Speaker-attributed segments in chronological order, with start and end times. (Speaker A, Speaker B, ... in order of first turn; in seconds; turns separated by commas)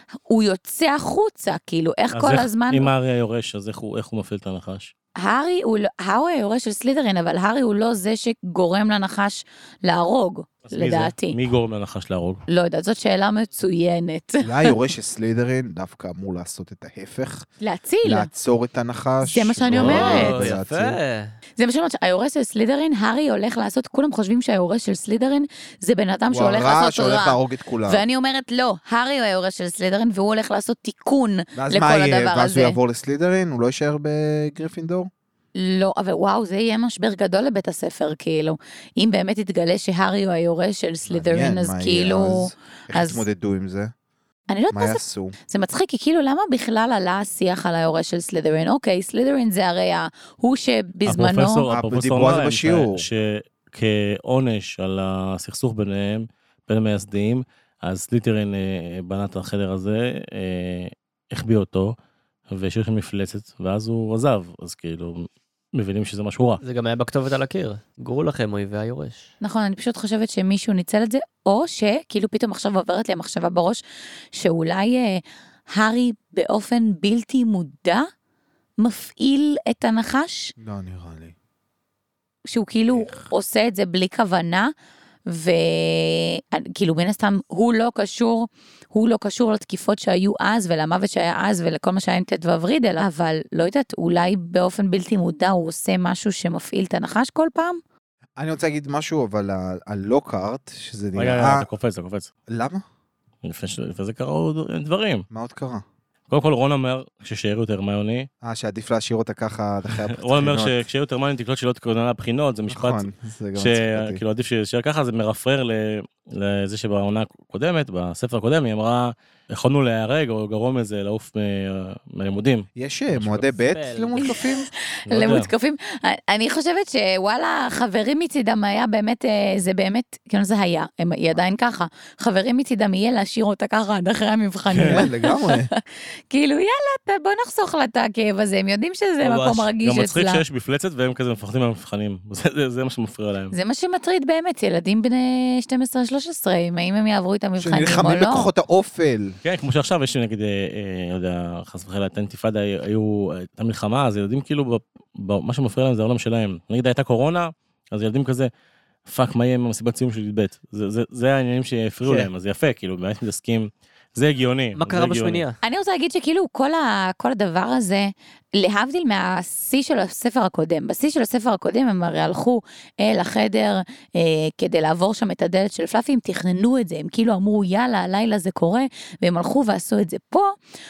Speaker A: 0.3-2.9, Speaker B: 2.1-4.9, Speaker A: 5.2-11.4, Speaker B: 10.7-12.4, Speaker A: 12.5-14.8, Speaker C: 14.4-17.5, Speaker A: 17.6-18.3, Speaker C: 18.0-21.0, Speaker A: 19.2-20.4, Speaker B: 19.7-20.2, Speaker D: 19.7-21.4, Speaker A: 21.6-32.8, Speaker C: 26.3-28.0, Speaker C: 31.6-35.1, Speaker A: 35.5-43.2, Speaker C: 41.1-43.9, Speaker A: 44.5-51.7, Speaker C: 44.7-45.3, Speaker B: 51.1-62.0, Speaker C: 51.7-53.1, Speaker B: 62.5-66.6, Speaker D: 66.6-69.3, Speaker A: 69.4-73.8, Speaker A: 74.3-78.1, Speaker A: 78.8-80.5, Speaker C: 80.6-81.3, Speaker A: 82.5-84.7, Speaker C: 82.9-83.3, Speaker A: 85.3-97.8, Speaker C: 98.4-101.7, Speaker B: 101.2-102.3, Speaker C: 102.5-102.8, Speaker B: 103.4-105.3, Speaker C: 105.3-105.8, Speaker B: 106.3-108.3, Speaker C: 108.4-110.8, Speaker B: 110.1-122.7, Speaker C: 112.7-114.2, Speaker C: 122.8-124.7, Speaker D: 123.1-124.4, Speaker A: 124.2-140.4, Speaker B: 125.1-125.5, Speaker B: 134.7-135.1, Speaker C: 134.8-135.7, Speaker D: 139.2-139.7, Speaker B: 139.8-143.5, Speaker A: 143.5-148.5, Speaker C: 147.6-149.4, Speaker B: 149.4-158.5, Speaker B: 159.1-165.4, Speaker D: 164.8-165.6, Speaker A: 165.6-180.5